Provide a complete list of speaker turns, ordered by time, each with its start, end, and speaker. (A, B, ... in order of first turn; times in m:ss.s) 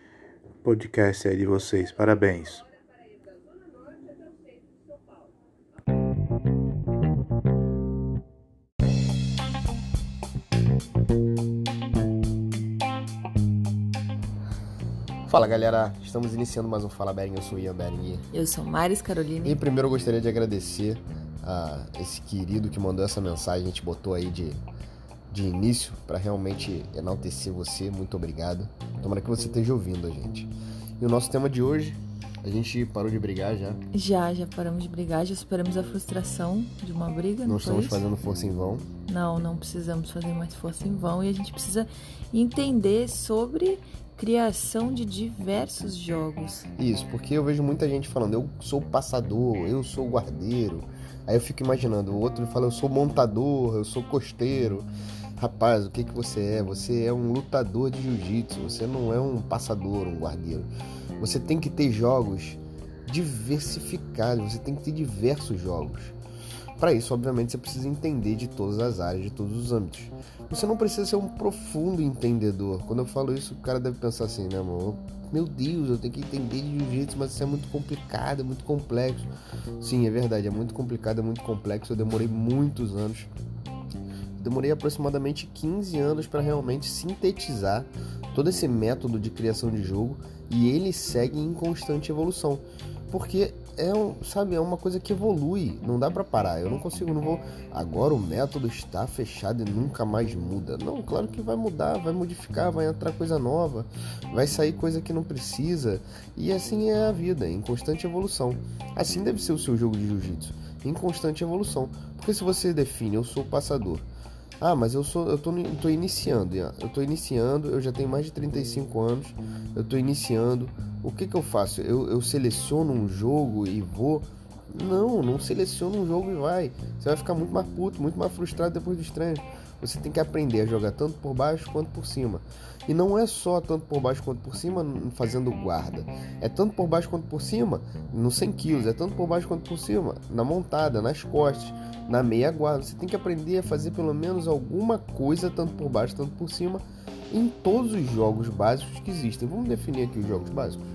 0:00.6-0:02.6 A
0:15.3-0:18.2 B
0:18.3-0:19.6 C
0:19.4-0:24.6 B
0:25.3-0:33.8 B
0:33.9-0:38.1 C
0:37.4-0:38.9 B
0:39.1-0:46.7 C
0:46.8-1:06.2 B
1:06.8-1:23.3 B
1:24.4-1:54.1 B
1:54.6-2:30.8 B